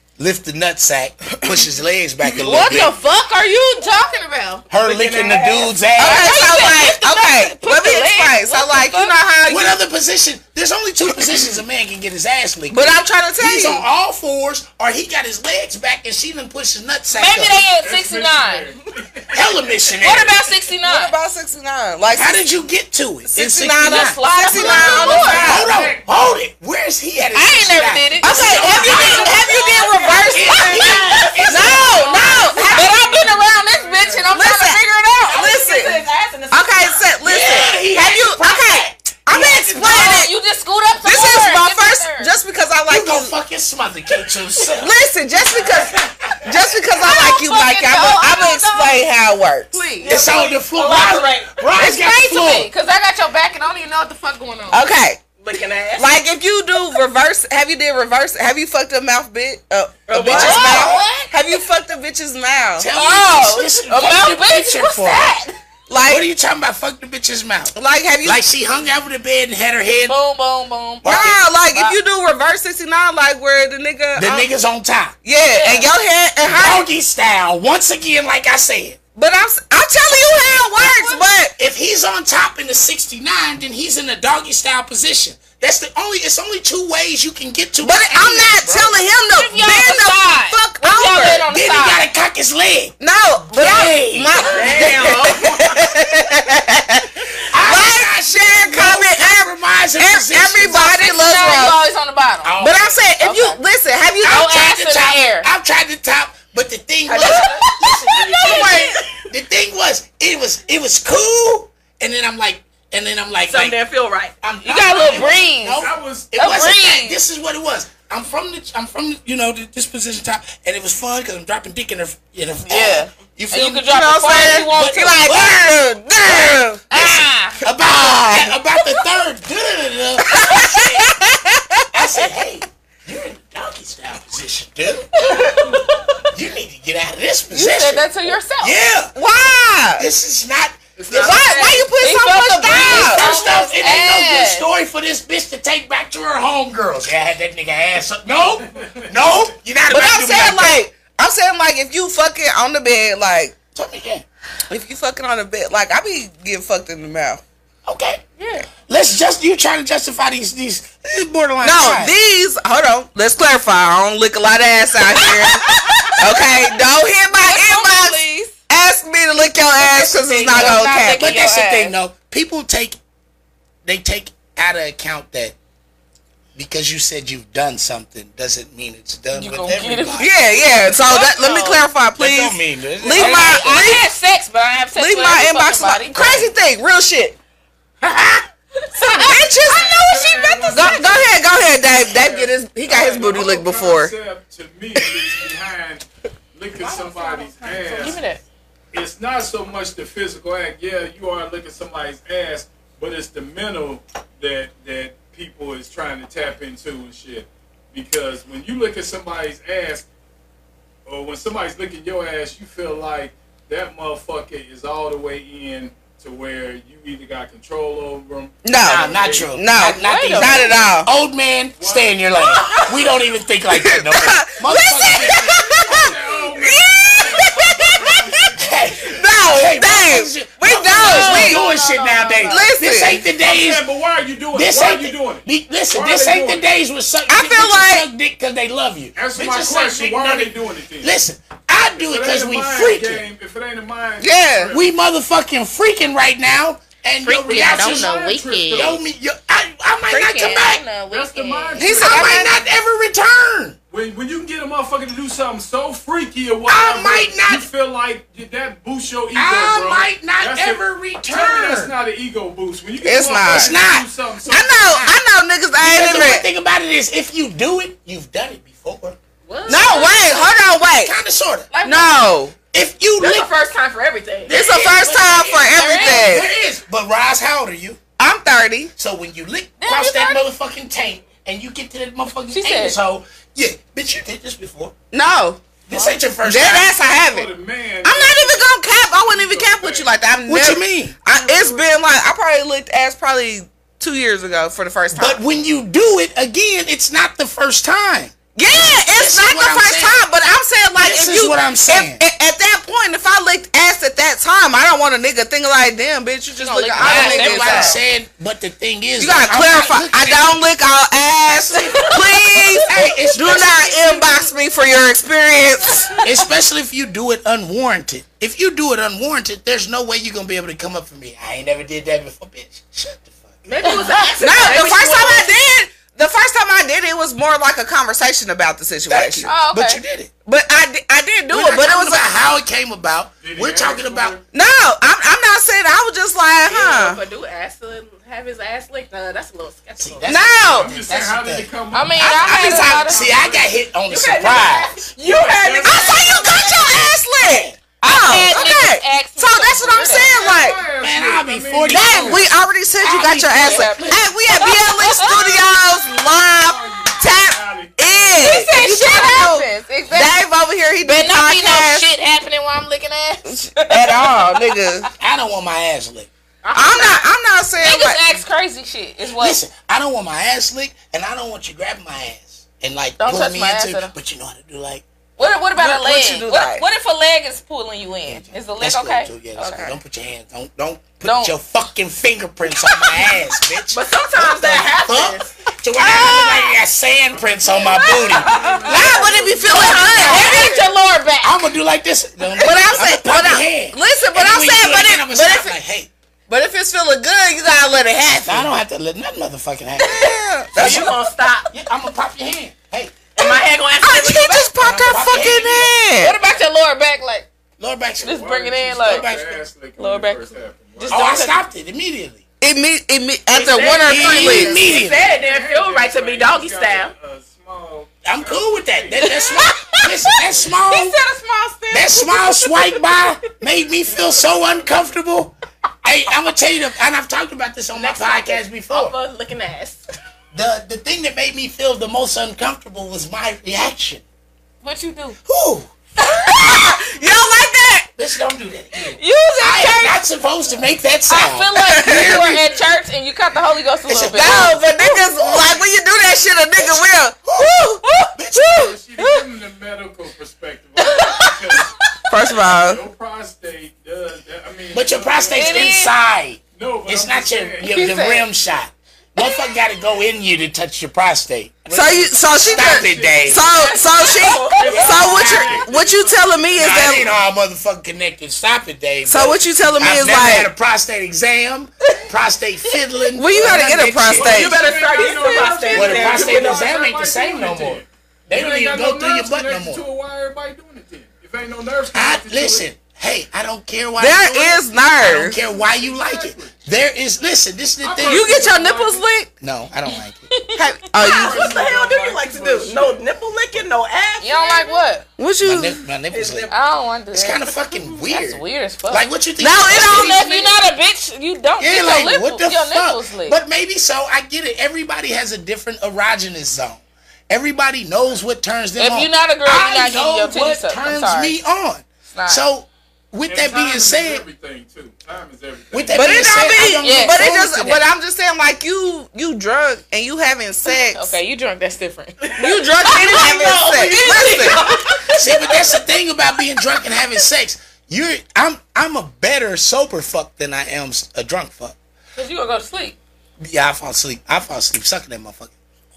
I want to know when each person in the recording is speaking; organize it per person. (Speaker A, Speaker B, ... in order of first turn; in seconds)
Speaker A: 0.2-3.0, 4.7-6.5, 9.5-17.6, 19.3-20.4, 22.1-29.4, 30.2-32.9, 37.2-40.2, 42.9-44.9, 50.1-52.7, 62.8-65.4, 66.0-70.2, 71.0-71.4, 74.2-75.2, 76.5-79.0, 81.6-88.9, 91.5-93.0, 93.5-95.6, 97.5-100.9, 102.4-103.0, 104.2-113.8, 114.4-123.9, 124.4-125.7, 126.2-131.0, 131.9-135.5, 136.3-139.2, 140.0-141.3, 142.8-150.8, 153.7-154.2, 157.9-158.2, 158.8-162.1, 169.8-173.0, 173.8-175.6, 176.6-180.3, 182.2-184.0, 188.0-188.4, 218.8-226.1, 228.6-233.8, 234.5-243.2, 244.7-248.1, 248.7-250.8, 251.9-253.8, 256.7-257.7, 259.3-261.9, 263.5-264.1, 264.7-265.2, 265.8-269.2, 270.9-271.7, 272.7-273.5, 274.5-278.0, 279.0-284.9, 285.9-286.9, 290.5-291.2, 295.1-300.2, 301.0-302.2, 307.0-310.6, 311.5-314.5, 316.2-323.6, 329.1-330.3, 331.5-334.4, 340.0-341.7, 342.2-345.1, 347.5-347.7, 351.0-352.5, 353.0-354.2, 365.2-366.3, 369.3-375.1, 378.3-388.6, 389.8-390.7, 391.4-396.1, 398.4-401.2, 401.7-403.6, 404.8-405.9, 407.8-408.4, 409.0-409.6, 411.0-412.4, 413.9-415.3, 418.2-421.2, 421.9-429.1, 430.5-434.2, 435.5-435.9, 438.2-442.7, 444.1-445.8, 446.8-447.8, 448.4-448.9, 454.9-463.7, 465.2-465.8, 466.8-474.9, 475.9-480.0, 482.1-488.5, 489.6-490.5, 495.6-496.7, 497.3-500.7, 501.8-514.4, 515.9-518.0, 523.1-532.0, 533.6-535.7
Speaker B: 2.4-4.7, 6.0-9.2, 17.1-18.7, 20.0-21.1, 23.8-25.7, 27.3-35.6, 39.7-42.3, 47.0-49.0, 49.7-50.2, 51.8-54.8, 60.2-61.3, 62.9-65.5, 70.1-72.0, 75.5-75.9, 80.8-81.2, 89.3-92.0, 100.7-102.5, 103.2-103.6, 104.2-105.5, 114.6-117.2, 122.7-125.2, 126.9-127.6, 135.3-135.8, 137.5-138.8, 142.0-144.7, 158.4-158.7, 165.7-166.4, 167.4-168.5, 170.5-171.9, 179.3-180.3, 180.9-181.8, 183.1-186.5, 188.9-189.4, 196.9-198.4, 219.8-220.7, 230.9-232.7, 247.2-248.9, 250.1-251.9, 269.6-270.4, 271.7-272.2, 275.8-276.3, 279.8-280.4, 282.5-283.0, 285.9-286.2, 306.6-308.0, 323.8-324.4, 329.5-330.0, 341.9-343.3, 348.0-350.3, 353.6-355.5, 358.4-360.4, 361.0-364.7, 366.6-367.3, 367.8-369.6, 373.2-374.1, 375.4-379.9, 381.2-381.6, 382.9-383.4, 386.0-386.7, 388.3-389.2, 389.7-391.6, 406.2-407.5, 408.2-409.3, 410.0-410.5, 411.0-411.6, 419.5-420.1, 434.8-435.4, 439.2-440.2, 441.3-444.8, 451.1-451.6, 455.6-456.1, 457.8-458.5, 490.5-490.8, 494.4-495.3, 496.7-497.6, 498.3-499.3, 499.9-503.6, 509.0-511.6, 512.3-512.6, 517.0-517.4, 521.1-525.4, 532.4-533.2
Speaker C: 4.7-5.9, 28.6-31.4, 32.5-32.8, 35.3-37.2, 50.0-51.7, 55.4-56.2, 60.1-61.0, 94.4-95.6, 107.1-108.7, 113.4-114.3, 141.1-141.8, 196.8-198.2, 269.5-270.3, 273.2-274.6, 323.6-325.5, 336.7-340.3, 344.1-346.5, 383.9-385.5, 387.8-390.9, 400.7-401.7, 403.4-404.7, 413.5-417.1, 420.9-422.9, 427.9-430.0, 463.7-465.7, 474.5-476.9, 491.3-495.0, 496.3-496.7
Speaker D: 6.0-9.8, 12.7-13.9, 20.8-22.4, 23.3-25.7, 28.2-32.9, 34.3-40.3, 41.0-43.3, 44.8-49.8, 54.7-55.2, 56.0-62.9, 65.9-66.3, 67.8-68.4, 71.0-74.5, 75.2-76.9, 79.2-81.5, 87.8-91.5, 93.0-101.8, 102.6-104.6, 108.3-108.9, 123.8-126.9, 127.7-128.6, 130.3-131.9, 139.2-140.1, 141.1-143.3, 149.9-153.6, 154.7-157.4, 161.6-171.4, 180.2-184.1, 185.0-187.4, 189.1-194.1, 218.7-221.1, 223.7-228.5, 229.0-231.6, 232.4-233.2, 237.3-238.1, 244.2-244.8, 251.8-252.5, 263.0-263.7, 264.5-266.5, 269.7-271.1, 271.8-272.5, 274.5-276.5, 278.2-278.9, 285.1-285.6, 286.4-287.5, 288.0-295.4, 298.6-308.0, 309.2-316.1, 324.4-329.5, 330.5-332.4, 334.5-337.2, 340.3-340.9, 345.8-350.8, 351.9-362.1, 363.5-365.1, 366.8-368.2, 375.8-376.8, 388.9-390.6, 392.6-395.8, 396.5-398.7, 400.0-401.2, 404.0-406.4, 412.6-414.8, 436.2-438.1, 441.9-442.4, 444.3-448.0, 448.5-449.4, 452.3-453.0, 461.9-467.3, 469.2-470.7, 473.4-474.8, 484.2-485.6, 488.2-489.5, 490.8-491.7, 495.4-496.0, 499.6-500.6, 516.1-521.4, 522.6-524.8
Speaker E: 17.8-19.9, 25.2-26.4, 33.0-34.2, 115.8-116.3, 141.0-141.5, 189.5-198.2, 198.9-210.1, 211.1-219.6, 221.8-222.8, 225.6-229.2, 233.4-236.7, 239.2-241.2, 241.8-244.9, 247.5-249.0, 251.1-252.5, 253.9-264.8, 287.0-290.1, 333.4-334.4, 340.5-343.8, 345.2-346.6, 350.1-352.4, 356.5-358.6, 387.3-390.1, 408.2-411.5, 414.7-420.7, 424.0-425.2, 448.7-451.9, 452.6-456.0, 456.8-458.0, 462.6-463.9, 464.8-467.4, 474.4-482.9, 485.7-486.8, 488.0-489.2, 491.1-493.8, 513.5-516.6